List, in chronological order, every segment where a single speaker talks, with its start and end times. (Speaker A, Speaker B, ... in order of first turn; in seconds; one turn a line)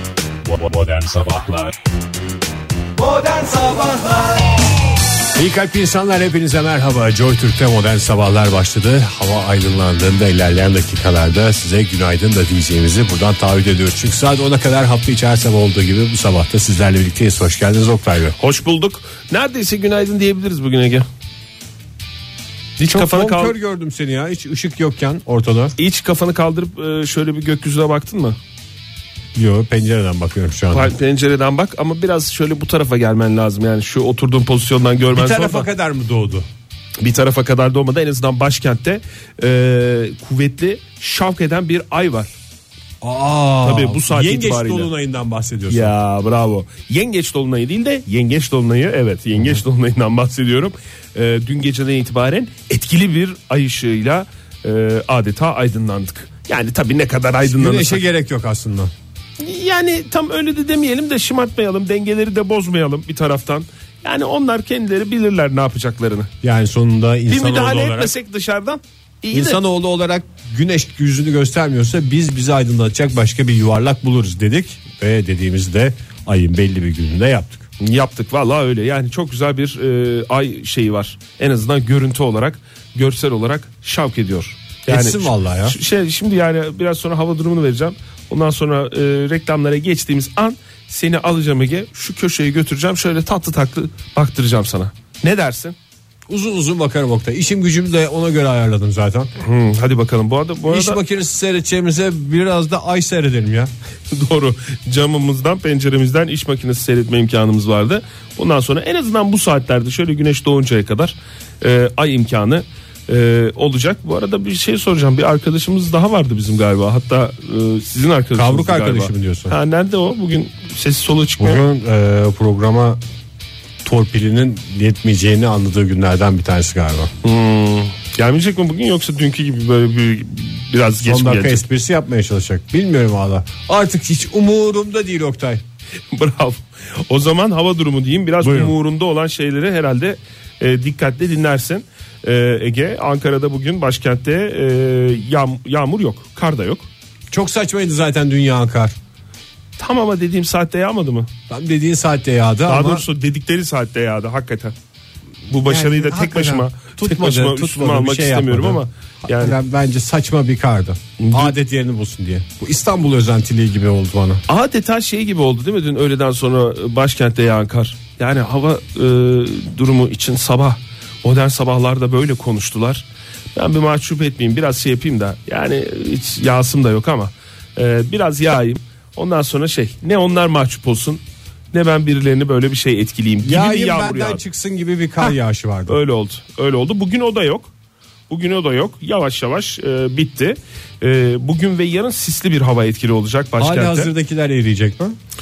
Speaker A: 0.4-1.8
Speaker A: 3.6-3.9
Speaker A: 5.3-18.4
Speaker B: 18.4-21.1
Speaker A: 22.8-25.7
Speaker B: 22.9-23.6
Speaker B: 25.8-28.4
Speaker A: 29.4-30.9
Speaker B: 30.7-35.7
Speaker A: 35.1-36.4
Speaker B: 37.0-42.3
Speaker A: 43.0-45.9
Speaker B: 43.6-44.9
Speaker B: 45.7-58.0
Speaker A: 57.5-58.9
Speaker B: 59.4-66.3
Speaker A: 66.4-68.1
Speaker B: 67.3-69.6
Speaker A: 69.3-77.7
Speaker B: 77.8-95.8
Speaker A: 84.9-85.8
Speaker A: 96.3-99.3
Speaker B: 99.4-101.0
Speaker A: 100.7-103.7
Speaker B: 104.1-121.6
Speaker A: 118.3-119.5
Speaker A: 121.4-123.0
Speaker A: 123.8-127.1
Speaker B: 127.2-131.6
Speaker A: 131.0-135.6
Speaker B: 136.1-146.9
Speaker A: 138.4-138.7
Speaker A: 147.3-148.9
Speaker B: 149.8-151.3
Speaker A: 151.5-153.0
Speaker B: 152.6-154.7
Speaker B: 155.5-159.6
Speaker A: 155.6-164.4
Speaker B: 161.2-161.6
Speaker B: 164.5-181.2
Speaker B: 181.7-184.4
Speaker A: 183.4-186.0
Speaker B: 185.9-187.7
Speaker B: 188.3-194.1
Speaker A: 193.6-195.1